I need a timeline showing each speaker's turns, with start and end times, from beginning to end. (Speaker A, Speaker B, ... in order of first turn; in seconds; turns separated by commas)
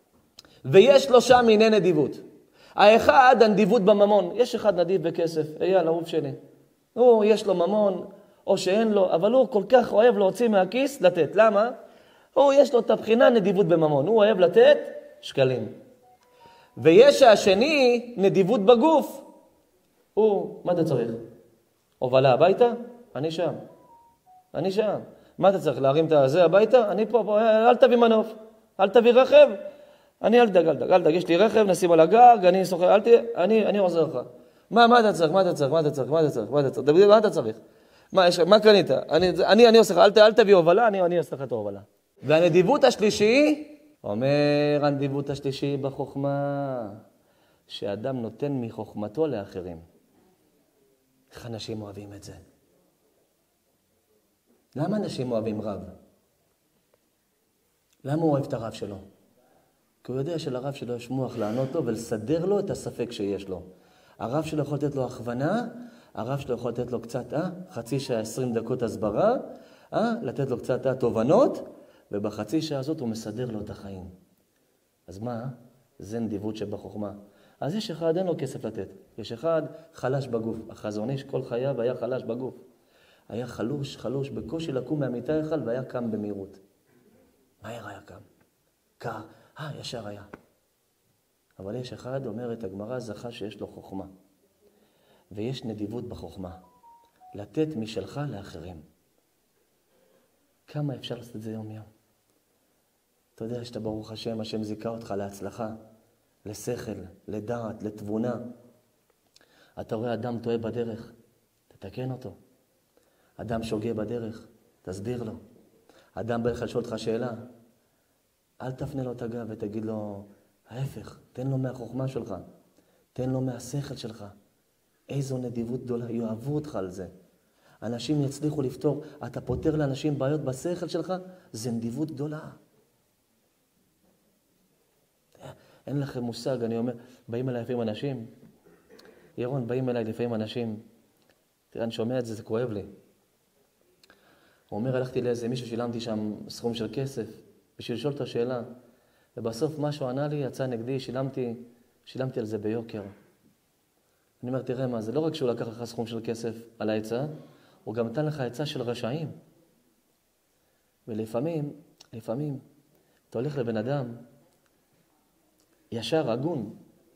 Speaker A: 0.6-2.2, Speaker A: 2.8-6.4, Speaker A: 7.0-11.8, Speaker A: 12.3-15.7, Speaker A: 16.8-19.3, Speaker A: 20.1-21.2, Speaker A: 22.0-23.6, Speaker A: 24.5-29.6, Speaker A: 30.2-37.6, Speaker A: 38.1-47.0, Speaker A: 47.7-49.8, Speaker A: 51.3-52.4, Speaker A: 54.8-55.9, Speaker A: 58.0-59.0, Speaker A: 60.0-63.6, Speaker A: 64.2-74.1, Speaker A: 75.1-82.6, Speaker A: 83.3-86.6, Speaker A: 87.6-88.2, Speaker A: 89.0-90.3, Speaker A: 91.6-94.1, Speaker A: 95.3-96.6, Speaker A: 97.3-98.8, Speaker A: 100.7-101.9, Speaker A: 103.4-105.8, Speaker A: 106.5-108.5, Speaker A: 109.8-111.1, Speaker A: 111.7-112.4, Speaker A: 113.4-115.4, Speaker A: 116.2-117.5, Speaker A: 118.6-122.5, Speaker A: 123.2-124.3, Speaker A: 125.1-127.1, Speaker A: 127.8-132.6, Speaker A: 135.4-138.3, Speaker A: 139.4-140.8, Speaker A: 141.7-142.9, Speaker A: 144.7-148.7, Speaker A: 149.4-153.1, Speaker A: 154.4-157.3, Speaker A: 157.8-159.3, Speaker A: 161.1-162.6, Speaker A: 163.3-164.2, Speaker A: 165.9-166.8